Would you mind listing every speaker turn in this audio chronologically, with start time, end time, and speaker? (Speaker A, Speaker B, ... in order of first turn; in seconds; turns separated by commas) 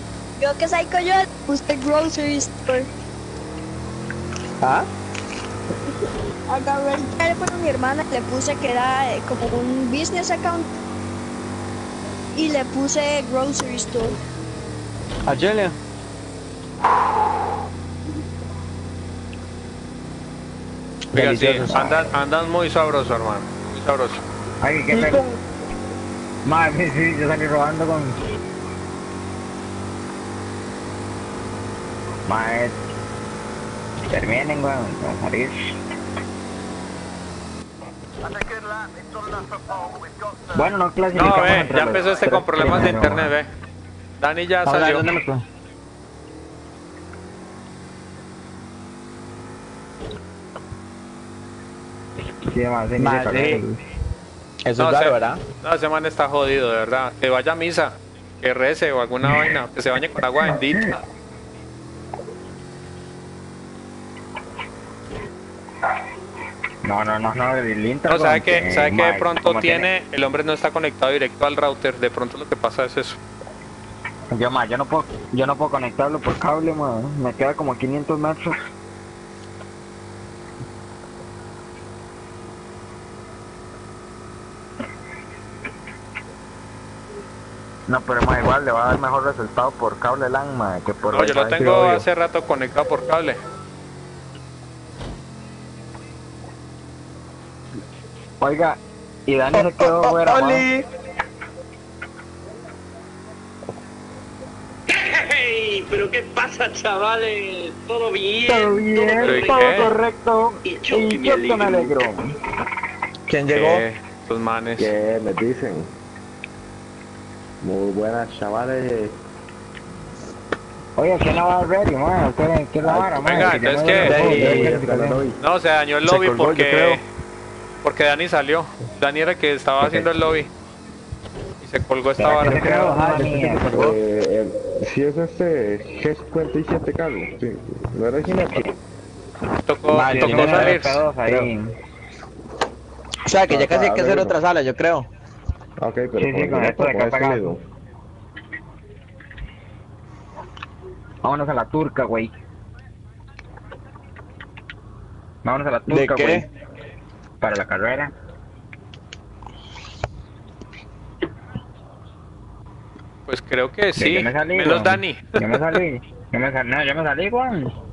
Speaker A: 0.4-2.9, Speaker A: 6.5-10.7, Speaker A: 12.3-14.2, Speaker B: 15.2-15.8, Speaker B: 21.1-22.2, Speaker C: 21.1-24.2, Speaker D: 24.6-25.2, Speaker B: 24.9-25.4, Speaker D: 26.4-28.1, Speaker D: 32.3-32.7, Speaker D: 34.1-35.7, Speaker B: 38.3-38.9, Speaker D: 40.5-43.3, Speaker C: 41.1-43.5, Speaker C: 44.2-45.1, Speaker B: 44.6-45.4, Speaker D: 52.5-53.8, Speaker B: 53.0-53.6, Speaker B: 54.6-55.4, Speaker C: 54.8-61.0, Speaker D: 59.2-59.5, Speaker D: 60.4-60.8, Speaker D: 66.8-69.9, Speaker C: 68.1-73.2, Speaker D: 74.3-78.5, Speaker D: 87.9-92.0, Speaker C: 91.1-93.4, Speaker D: 98.4-100.7, Speaker B: 99.8-100.8, Speaker E: 105.2-109.4, Speaker D: 108.4-112.2, Speaker C: 109.2-109.9, Speaker E: 111.1-111.6, Speaker F: 111.6-112.0, Speaker B: 113.3-113.8, Speaker C: 113.5-114.9, Speaker F: 114.8-115.9, Speaker F: 117.6-119.2, Speaker D: 121.0-125.2, Speaker F: 122.8-125.4, Speaker C: 123.2-124.2, Speaker B: 124.0-124.8, Speaker C: 125.4-127.0, Speaker B: 126.0-127.0, Speaker C: 127.8-130.5, Speaker C: 131.6-132.6, Speaker D: 132.2-133.8, Speaker B: 132.3-133.9, Speaker F: 132.7-138.7, Speaker C: 139.7-141.0, Speaker D: 139.9-141.7, Speaker F: 140.2-140.7, Speaker B: 140.3-140.7, Speaker B: 143.2-145.1, Speaker F: 143.5-144.4, Speaker F: 145.8-147.6, Speaker D: 146.2-147.5, Speaker D: 151.2-152.3, Speaker D: 155.4-156.4, Speaker B: 155.9-156.4, Speaker D: 157.4-158.1, Speaker C: 163.3-165.6, Speaker D: 164.0-167.7